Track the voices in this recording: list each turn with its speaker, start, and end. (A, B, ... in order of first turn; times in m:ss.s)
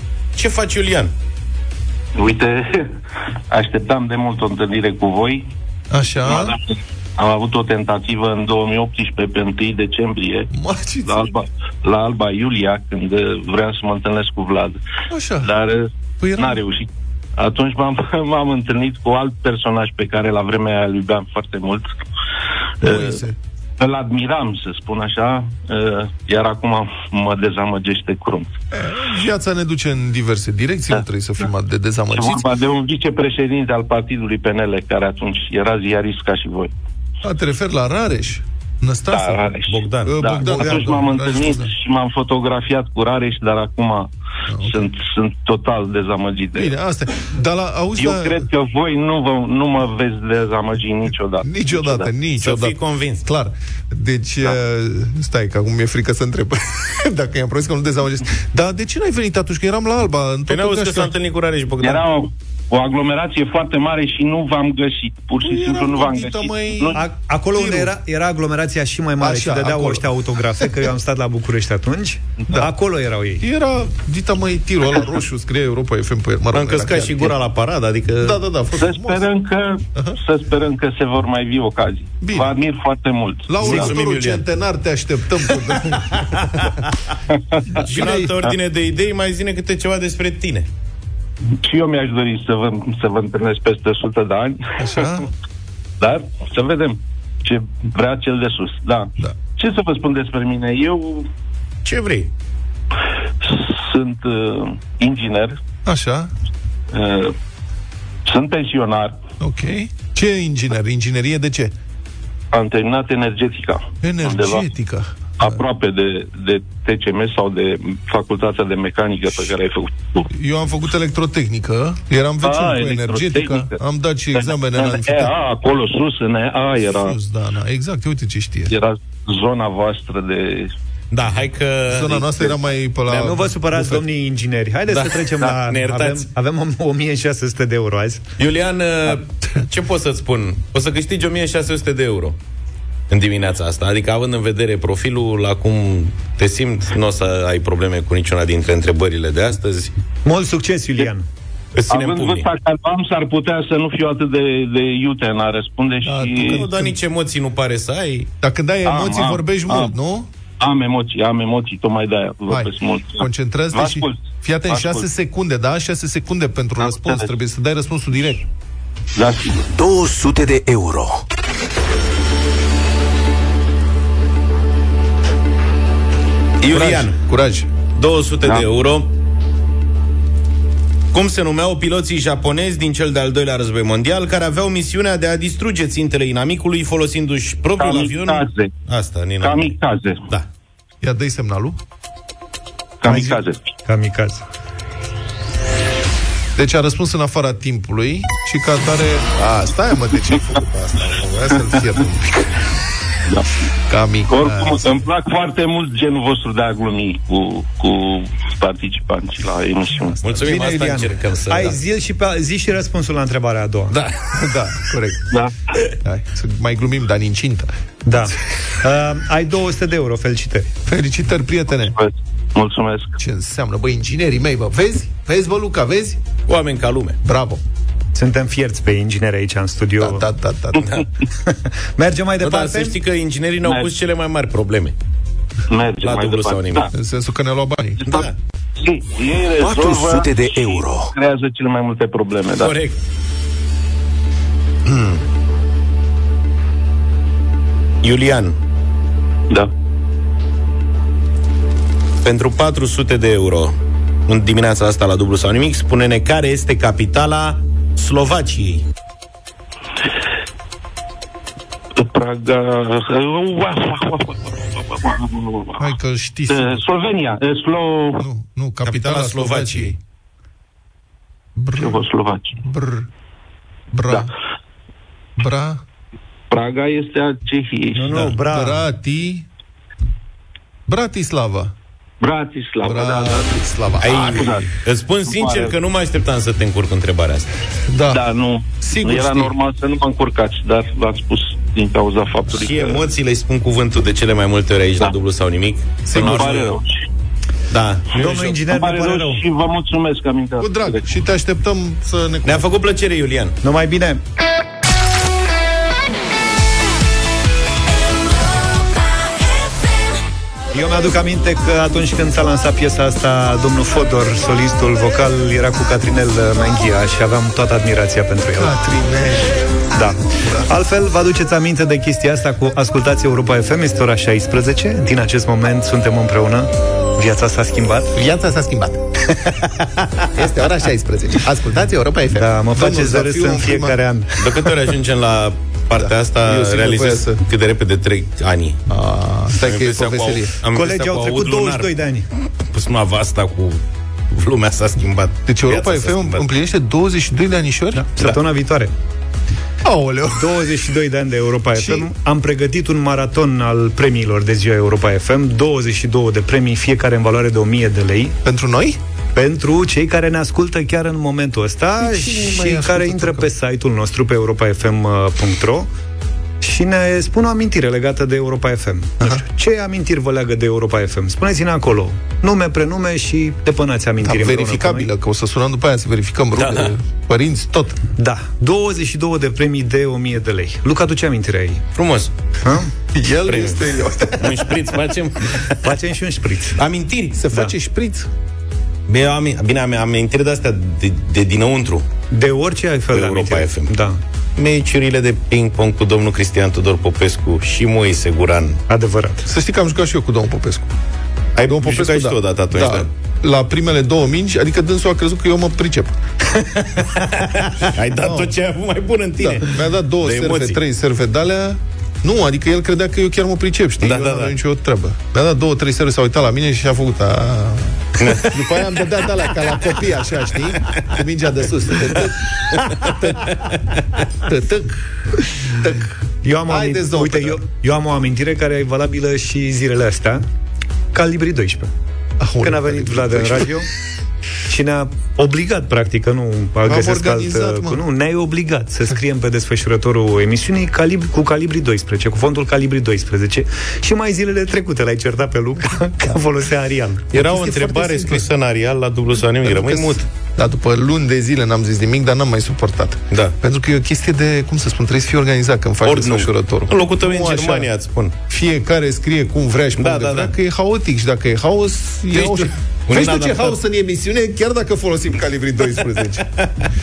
0:00.4-0:01.1 A
0:02.2-0:03.0 B
0:03.5-0:05.4 B
0:05.9-0:06.6 C
0:06.2-0:10.5 B
0:10.5-0:11.3 C
0:11.0-0:14.8 B
0:15.1-0:15.5 C
0:15.4-0:21.9 B
0:16.2-0:16.6 C
0:22.8-0:23.2 B
0:22.8-0:23.4 C
0:23.8-0:28.5 B
0:28.7-0:32.5 C
0:32.1-0:36.7 B
0:37.2-0:39.4 C
0:39.1-0:44.1 B
0:39.7-0:40.9 A
0:40.0-0:41.7 C
0:44.5-0:44.9 C
0:44.6-0:46.8 B
0:46.5-0:48.5 C
0:48.0-0:52.1 B
0:51.4-1:01.1 C
0:52.4-0:53.2 A
1:00.5-1:02.0 A
1:01.8-1:07.0 B
1:05.4-1:07.9 C
1:06.9-1:13.4 D
1:09.2-1:10.8 C
1:13.4-1:17.4 C
1:16.5-1:18.4 A
1:18.2-1:19.3 C
1:18.8-1:23.9 B
1:22.2-1:22.6 C
1:23.5-1:26.6 C
1:23.6-1:24.4 A
1:27.7-1:28.5 C
1:27.8-1:30.7 A
1:28.0-1:28.2 D
1:31.6-1:35.2 B
1:34.8-1:35.3 C
1:36.0-1:41.3 B
1:41.8-1:42.3 A
1:43.4-1:45.6 B
1:45.8-1:46.3 C
1:46.9-1:47.3 B
1:48.2-1:49.2 B
1:49.4-1:51.7 C
1:52.5-1:54.6 B
1:54.0-1:55.6 C
1:55.4-2:00.3 B
2:00.3-2:05.3 C
2:02.4-2:03.8 B
2:04.3-2:07.2 B
2:06.9-2:08.8 C
2:08.7-2:10.7 B
2:11.1-2:12.5 A
2:11.9-2:14.0 C
2:13.1-2:18.2 D
2:14.9-2:16.2 A
2:18.4-2:22.4 A
2:23.1-2:29.9 A
2:30.2-2:31.3 D
2:31.8-2:32.5 A
2:31.9-2:36.6 B
2:36.0-2:37.0 C
2:36.4-2:38.3 A
2:38.4-2:40.3 C
2:38.8-2:39.9 B
2:40.6-2:45.1 B
2:42.5-2:48.5 C
2:46.8-2:47.3 B
2:49.1-2:49.6 B
2:49.7-2:51.2 E
2:56.6-2:57.2 A
2:56.7-2:57.7 C
2:58.0-2:59.1 A
3:01.1-3:09.8 A
3:07.8-3:08.7 B
3:09.4-3:10.2 B
3:11.0-3:11.8 C
3:13.0-3:13.6 B
3:13.0-3:14.5 D
3:16.6-3:22.6 C
3:23.9-3:25.0 C
3:24.3-3:30.2 B
3:30.2-3:31.8 A
3:30.3-3:30.6 C
3:30.4-3:34.0 D
3:33.9-3:34.3 A
3:34.3-3:35.3 C
3:36.0-3:37.7 C
3:38.0-3:40.7 D
3:40.8-3:42.0 C
3:41.8-3:43.2 B
3:43.2-3:46.2 C
3:46.5-3:47.2 A
3:47.2-3:47.6 C
3:48.1-3:50.3 D
3:50.0-3:51.0 C
3:50.8-3:51.0 A
3:51.4-3:53.0 D
3:52.4-3:55.0 A
3:53.6-3:53.9 B
3:55.7-3:56.9 B
3:56.0-3:56.9 A
3:56.9-3:58.3 C
3:58.0-4:02.8 B
3:58.1-3:58.3 A
3:59.6-4:01.1 E
4:02.5-4:03.0 A
4:04.8-4:05.2 A
4:08.0-4:08.6 A
4:12.2-4:13.8 A
4:14.3-4:18.8 A
4:21.9-4:25.9 B
4:25.8-4:26.8 C
4:26.5-4:28.2 B
4:28.2-4:30.0 C
4:28.8-4:29.9 A
4:31.6-4:32.0 C
4:31.8-4:32.6 B
4:32.6-4:33.1 C
4:33.9-4:34.3 C
4:35.4-4:35.8 C
4:36.5-4:38.2 B
4:37.9-4:38.8 D
4:38.1-4:39.4 C
4:40.9-4:41.7 C
4:42.2-4:43.5 B
4:42.8-4:44.5 C
4:44.0-4:47.5 A
4:44.1-4:44.7 B
4:45.3-4:45.7 B
4:47.9-4:48.2 C
4:48.1-4:53.1 B
4:48.8-4:49.5 C
4:52.5-4:56.7 A
4:56.1-4:56.7 C
4:56.2-4:57.0 B
4:57.7-4:58.6 A
4:58.1-4:59.4 D
4:58.6-5:01.1 B
5:00.6-5:02.6 C
5:02.4-5:03.6 A
5:03.6-5:04.2 D
5:10.7-5:18.7 D
5:18.6-5:19.6 C
5:19.9-5:28.1 D
5:28.1-5:29.0 C
5:30.3-5:34.0 C
5:32.3-5:34.7 D
5:34.4-5:38.8 A
5:35.9-5:37.4 C
5:38.9-5:40.5 C
5:39.6-5:42.0 A
5:40.7-5:42.3 D
5:42.7-5:46.4 A
5:45.5-5:48.1 C
5:47.9-5:48.9 D
5:49.8-5:50.6 C
5:50.4-5:58.4 D
5:51.7-5:52.1 C
5:58.4-5:59.0 C
5:59.3-6:05.9 D
6:02.0-6:03.5 C
6:06.6-6:15.1 D
6:14.2-6:18.0 C
6:16.6-6:16.9 A
6:18.2-6:21.8 D
6:22.0-6:22.3 A
6:22.6-6:22.9 D
6:23.1-6:24.8 C
6:23.5-6:23.8 A
6:24.4-6:25.9 A
6:25.8-6:26.8 D
6:26.8-6:27.4 A
6:27.4-6:28.3 C
6:29.1-6:32.1 A
6:32.3-6:34.2 D
6:33.1-6:33.9 A
6:34.6-6:38.8 A
6:38.9-6:39.5 D
6:39.4-6:40.9 C
6:41.6-6:43.1 A
6:41.6-6:46.1 C
6:47.0-6:50.8 A
6:48.2-6:48.5 C
6:49.4-7:03.6 C
6:54.0-6:54.5 A
6:58.2-6:58.5 A
7:04.4-7:06.1 C
7:06.4-7:10.4 D
7:06.7-7:07.6 C
7:11.1-7:11.9 D
7:12.4-7:13.8 C
7:12.6-7:13.9 D
7:14.7-7:27.3 D
7:16.8-7:18.0 C
7:27.3-7:30.2 A
7:27.3-7:28.5 C
7:29.6-7:37.9 C
7:33.3-7:33.6 A
7:36.0-7:38.3 A
7:38.5-7:46.5 C
7:40.0-7:40.5 A
7:42.3-7:43.8 A